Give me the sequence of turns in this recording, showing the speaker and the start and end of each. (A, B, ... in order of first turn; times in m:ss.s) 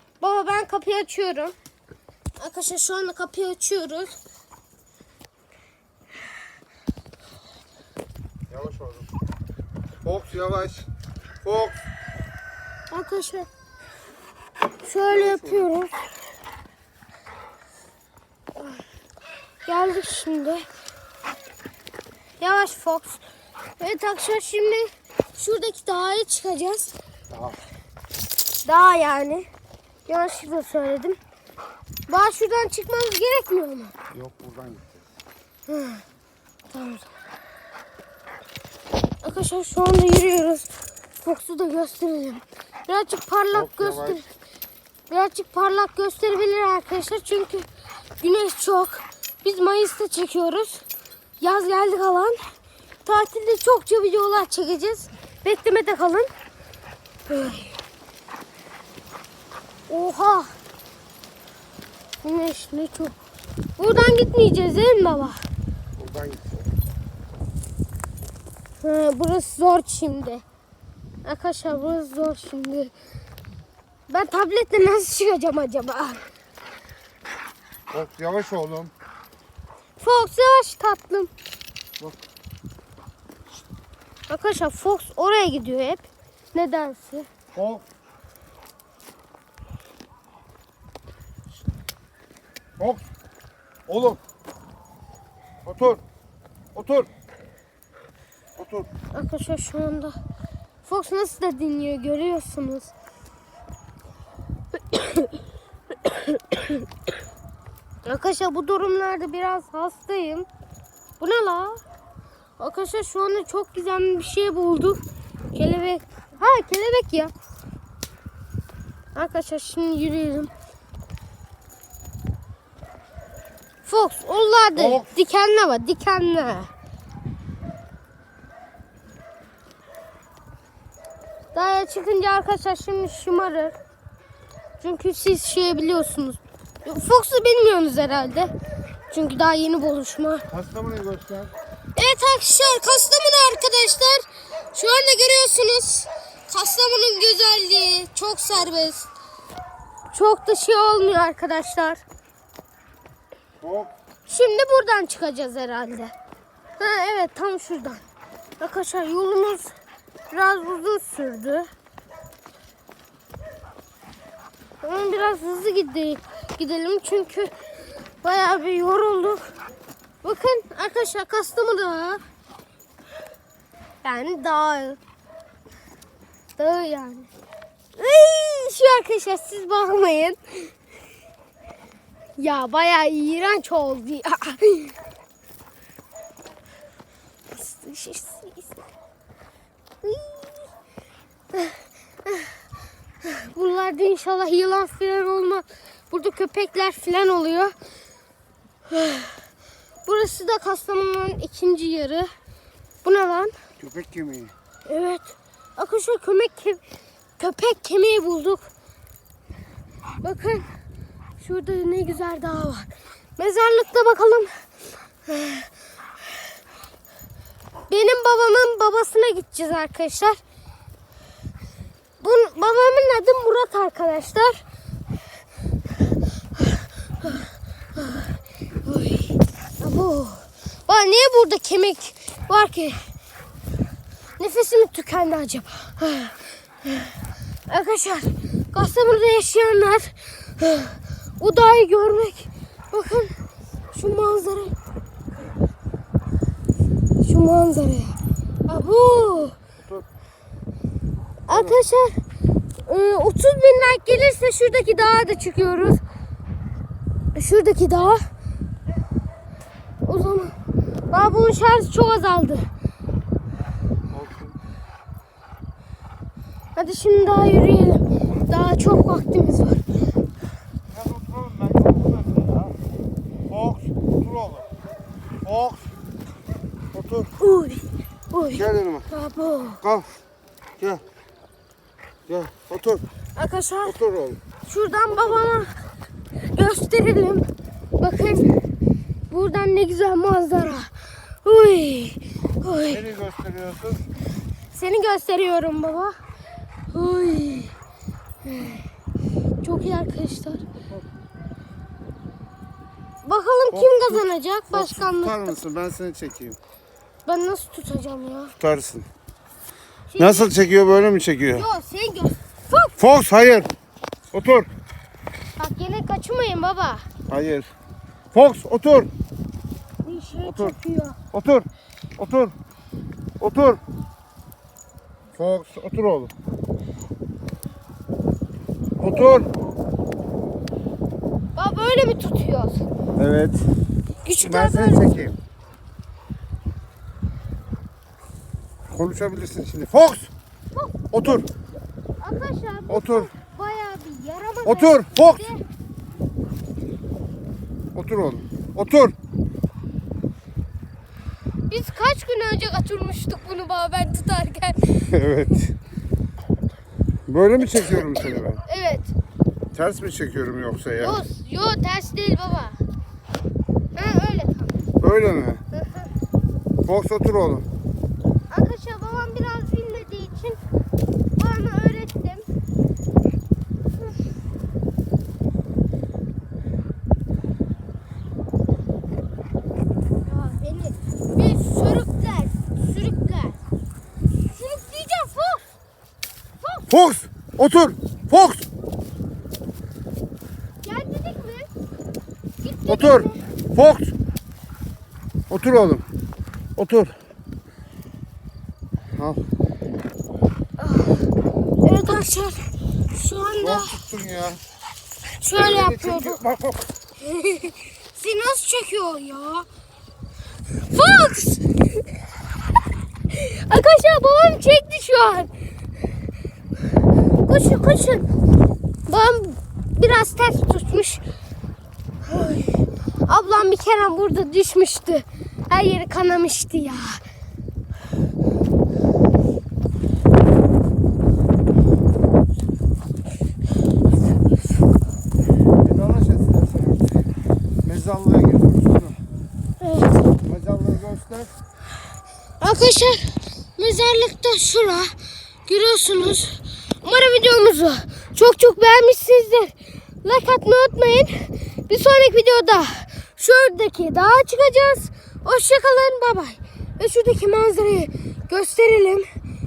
0:00.2-0:01.5 A
0:02.4-0:04.2 A
0:08.5-0:09.1 B
0:10.0-0:10.9 B
0:11.4-0:11.8 B
0:12.9-0:13.5 A
0:14.8-0:15.9 A
0:15.1-0:15.7 B
0:19.6-0:20.6 A
0:22.4-0:23.2 A
0:23.8-0:26.9 A
0:27.3-0:27.6 B
0:28.6-0:29.5 A
0:30.1-0:31.2 A
0:32.1-0:33.9 A
0:34.1-0:35.0 B
0:35.7-0:36.0 A
0:36.7-0:37.1 A
0:39.2-0:44.2 A
0:43.5-0:44.2 B
0:45.1-0:47.6 A
0:48.2-0:50.8 A
0:51.4-0:52.4 A
0:53.0-0:56.3 A
0:57.3-0:57.7 A
0:59.9-1:00.5 A
1:02.2-1:03.2 A
1:03.8-1:05.4 A
1:06.0-1:06.6 B
1:08.8-1:10.4 A
1:11.2-1:12.9 A
1:14.1-1:16.2 A
1:17.9-1:18.9 B
1:20.0-1:21.3 A
1:24.3-1:27.3 A
1:27.5-1:27.8 B
1:32.8-1:33.0 B
1:33.9-1:34.2 B
1:35.6-1:36.0 B
1:36.7-1:37.1 B
1:38.6-1:38.9 B
1:39.1-1:40.2 A
1:40.8-1:42.9 A
1:44.7-1:45.4 A
1:45.9-1:46.8 A
1:48.0-1:50.5 A
1:51.2-1:51.8 A
1:52.6-1:55.0 A
1:55.5-1:57.3 A
1:59.1-2:00.5 A
2:03.8-2:06.7 A
2:04.8-2:05.1 B
2:11.5-2:13.7 A
2:14.8-2:18.5 A
2:19.1-2:20.4 A
2:20.5-2:21.5 B
2:22.0-2:29.1 A
2:30.1-2:32.0 A
2:33.6-2:33.9 B
2:34.2-2:36.1 A
2:36.8-2:38.0 A
2:38.6-2:39.7 A
2:40.3-2:41.7 A
2:44.8-2:47.5 A
2:48.2-2:49.4 A
2:50.2-2:52.2 A
2:54.0-2:55.0 A
2:56.6-2:57.3 A
2:58.0-3:00.7 A
3:02.4-3:04.9 A
3:07.5-3:08.8 A
3:10.0-3:10.7 A
3:11.5-3:12.5 A
3:13.2-3:17.7 A
3:18.9-3:19.4 A
3:20.0-3:22.3 A
3:23.0-3:23.5 A
3:23.8-3:24.5 B
3:24.8-3:26.8 A
3:27.4-3:28.7 A
3:30.2-3:30.7 A
3:31.4-3:34.5 A
3:35.2-3:35.7 A
3:37.9-3:40.4 A
3:42.2-3:44.6 A
3:46.6-3:48.3 A
3:48.8-3:53.0 A
3:54.4-3:57.1 A
3:57.7-4:03.3 A
4:03.9-4:04.7 A
4:07.2-4:08.1 A
4:08.7-4:09.5 A
4:11.5-4:12.1 A
4:11.5-4:11.8 B
4:12.8-4:16.0 A
4:17.3-4:18.2 A
4:20.0-4:20.5 A
4:21.1-4:22.7 A
4:24.1-4:24.5 B
4:26.7-4:29.8 A
4:30.9-4:32.7 B
4:33.5-4:34.7 B
4:35.4-4:35.9 B
4:36.9-4:37.3 B
4:37.4-4:39.8 A
4:38.5-4:39.1 B
4:39.8-4:40.1 B
4:40.8-4:41.0 B
4:42.3-4:43.0 B
4:43.4-4:44.0 A
4:43.8-4:44.4 B
4:44.6-4:45.8 A
4:46.5-4:47.4 A
4:48.0-4:48.6 A
4:49.3-4:50.9 A
4:51.4-4:53.0 A
4:52.9-4:54.0 B
4:54.7-4:56.1 A
4:56.9-4:57.7 A
4:58.4-4:58.8 A
4:59.6-5:00.6 A
5:03.2-5:05.5 A
5:03.7-5:06.6 B
5:07.2-5:08.5 A
5:08.6-5:09.1 B
5:10.1-5:10.5 A
5:10.2-5:11.7 B
5:11.5-5:12.9 A
5:13.0-5:13.7 B
5:14.3-5:14.7 B
5:15.6-5:17.1 A
5:17.3-5:17.7 B
5:18.3-5:19.1 B
5:20.0-5:21.2 A
5:20.4-5:20.8 B
5:21.3-5:22.5 B
5:23.4-5:23.8 B
5:25.3-5:26.3 B
5:29.0-5:29.5 B
5:31.6-5:32.8 A
5:33.2-5:33.7 B
5:34.2-5:35.1 A
5:34.4-5:35.4 B
5:38.9-5:40.3 B
5:40.7-5:41.4 A
5:41.1-5:41.4 B
5:42.2-5:45.6 A
5:42.9-5:43.3 B
5:44.6-5:45.4 B
5:47.9-5:49.1 B
5:51.7-5:55.1 A
5:55.0-5:55.7 B
5:57.3-5:58.6 B
5:57.7-5:59.1 A
5:59.7-6:01.2 B
6:01.0-6:02.8 A
6:03.9-6:04.7 A
6:05.0-6:05.6 B
6:05.7-6:06.1 A
6:06.8-6:07.6 B
6:08.5-6:10.6 A
6:11.4-6:12.5 A
6:20.2-6:23.6 A
6:24.5-6:25.6 A
6:26.9-6:28.6 B
6:30.8-6:31.7 A
6:32.6-6:33.4 A
6:32.9-6:34.1 B
6:35.5-6:36.0 B
6:36.8-6:37.2 B
6:39.2-6:39.4 B
6:40.8-6:41.3 A
6:41.8-6:44.0 A
6:43.6-6:44.6 B
6:45.4-6:46.4 A
6:45.5-6:46.9 B
6:47.2-6:49.7 A
6:50.8-6:51.8 A
6:53.3-6:55.5 A
6:57.5-6:58.2 A
6:59.0-7:01.2 A
7:02.2-7:07.2 A
7:15.8-7:17.1 B
7:17.8-7:19.2 B
7:19.8-7:20.2 A
7:20.4-7:21.5 B
7:22.6-7:25.1 A
7:25.6-7:39.2 A